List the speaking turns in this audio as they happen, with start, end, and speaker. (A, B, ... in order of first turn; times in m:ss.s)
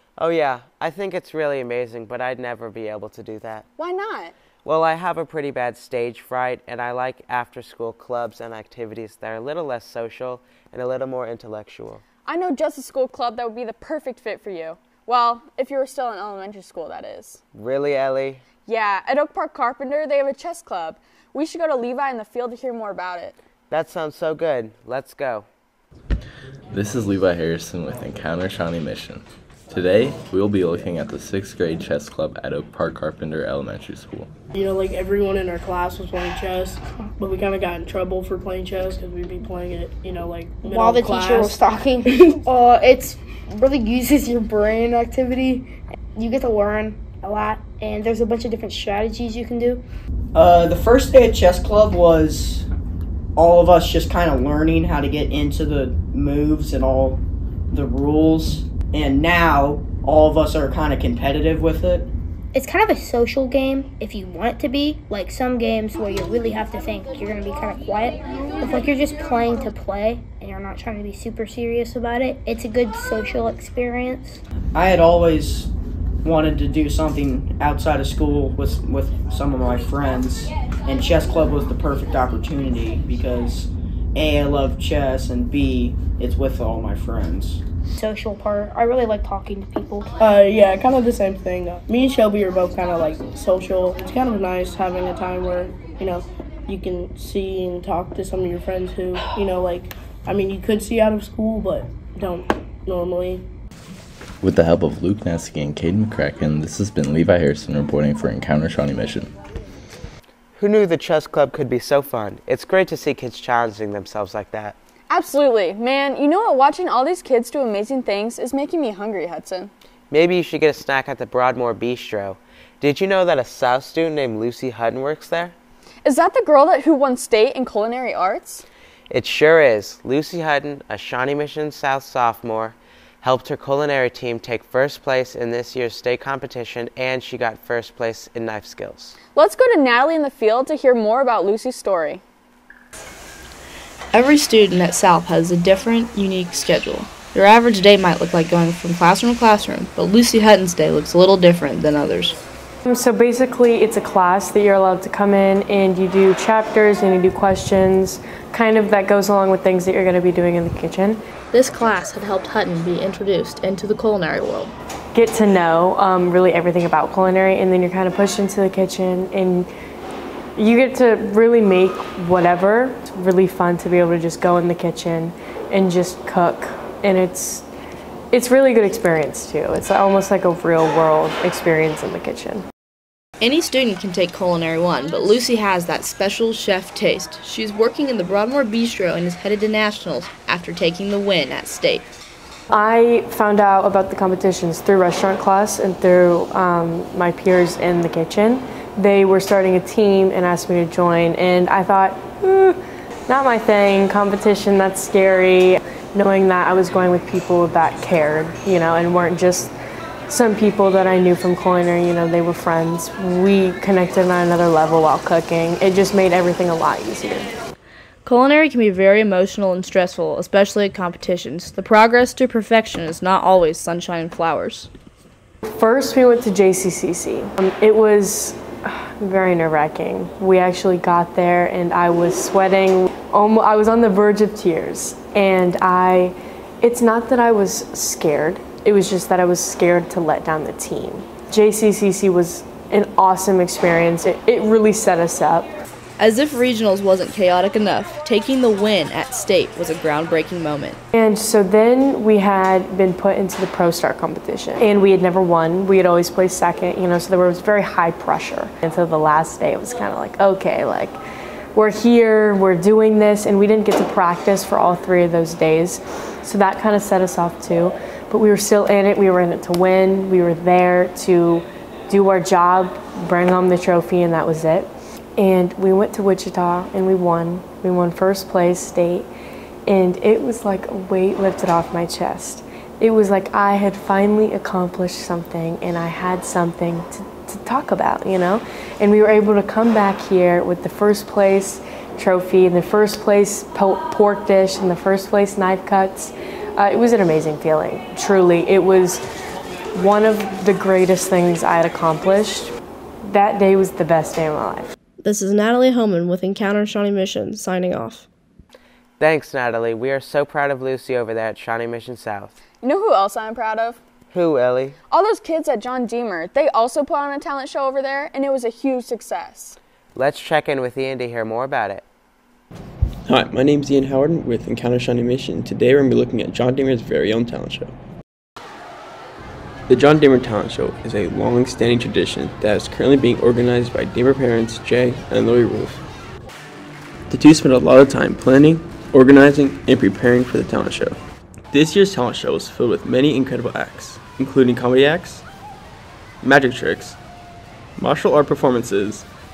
0:00.2-0:03.6 A
0:03.8-0:04.3 B
0:04.6-0:12.0 A
0:12.2-0:17.4 B
0:17.5-0:18.4 A
0:18.7-0:23.4 B
0:23.7-0:25.4 A
0:26.7-0:34.3 C
0:34.5-0:42.3 D
0:40.7-0:49.8 E
0:50.3-0:52.6 F
0:53.4-1:02.1 F
1:02.5-1:14.4 E
1:14.7-1:15.7 F
1:16.2-1:27.6 F
1:27.9-1:30.1 E
1:30.2-1:43.4 D
1:44.4-1:49.3 C
1:50.6-1:54.8 A
1:55.1-1:59.7 B
2:00.1-2:05.5 A
2:06.0-2:08.6 B
2:09.1-2:19.1 A
2:19.4-2:22.2 B
2:24.1-2:32.3 G
2:32.8-2:41.2 H
2:41.5-2:44.7 G
2:45.1-2:49.7 H
2:50.6-2:57.7 H
2:58.3-3:02.6 H
3:03.4-3:12.0 G
3:12.7-3:29.7 H
3:30.3-3:37.5 H
3:38.2-3:44.9 G
3:45.7-4:05.7 H
4:06.2-4:11.0 G
4:11.1-4:21.2 H
4:21.7-4:39.3 H
4:39.9-4:59.2 H
4:59.9-5:02.7 H
5:03.2-5:04.9 H
5:05.2-5:08.2 G
5:09.2-5:12.6 A
5:12.8-5:14.0 B
5:14.3-5:15.0 A
5:15.1-5:19.8 B
5:20.1-5:22.0 A
5:23.3-5:27.9 I
5:23.3-5:23.7 C
5:24.2-5:27.3 C
5:29.9-5:36.0 I
5:37.3-5:41.2 I
5:41.7-5:45.4 I
5:46.4-5:47.2 I
5:48.0-5:49.2 I